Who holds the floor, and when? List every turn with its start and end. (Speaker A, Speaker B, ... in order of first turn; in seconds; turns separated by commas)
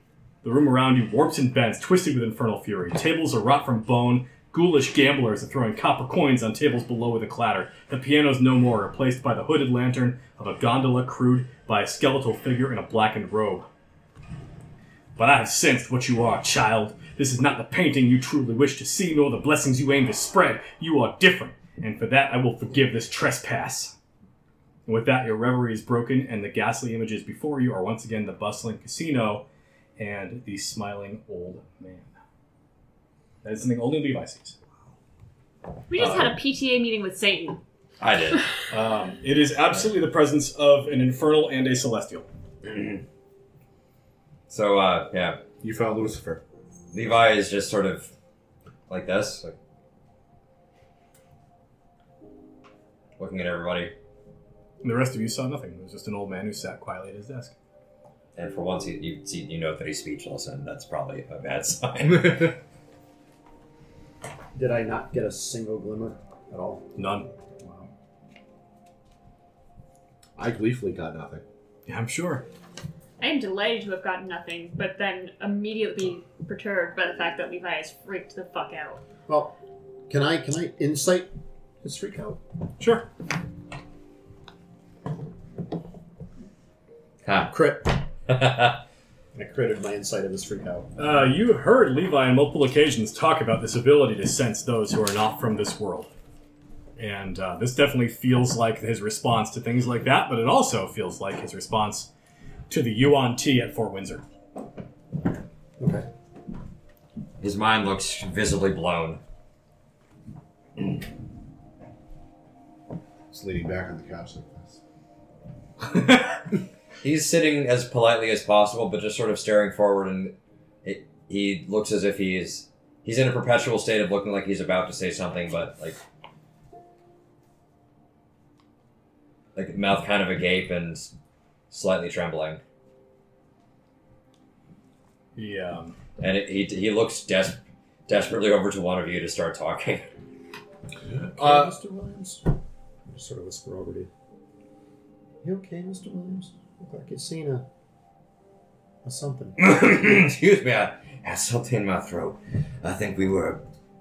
Speaker A: 0.4-13.7, Speaker A: 15.2-24.0, Speaker A: 24.9-29.4, Speaker A: 30.0-32.1, Speaker A: 33.4-34.6, Speaker B: 35.9-37.6, Speaker A: 36.0-36.3, Speaker C: 38.0-38.4, Speaker A: 38.7-42.3, Speaker C: 42.6-43.0, Speaker C: 44.5-45.4, Speaker D: 45.6-46.4, Speaker C: 46.9-48.1, Speaker C: 48.9-49.5, Speaker C: 53.2-53.9, Speaker A: 54.8-57.5, Speaker C: 58.4-62.6, Speaker D: 62.1-62.5, Speaker E: 64.5-66.8, Speaker A: 67.0-67.8, Speaker D: 70.4-71.4, Speaker A: 71.9-72.5, Speaker B: 73.2-79.0, Speaker E: 79.3-79.5, Speaker E: 80.1-82.4, Speaker A: 82.8-83.1, Speaker C: 87.2-87.7, Speaker E: 87.5-88.0, Speaker C: 88.3-88.8, Speaker E: 89.3-90.9, Speaker A: 91.0-96.1, Speaker A: 97.0-102.1, Speaker A: 102.7-104.2, Speaker E: 105.8-106.1, Speaker C: 107.4-109.2, Speaker D: 113.3-114.8, Speaker C: 117.0-120.3, Speaker C: 120.8-126.0, Speaker C: 129.6-131.1, Speaker C: 131.7-132.6, Speaker A: 135.4-136.0, Speaker C: 136.2-140.1, Speaker D: 141.1-141.7, Speaker E: 141.3-142.4, Speaker E: 143.1-144.1, Speaker E: 145.4-147.6, Speaker E: 149.0-149.6, Speaker C: 149.6-153.6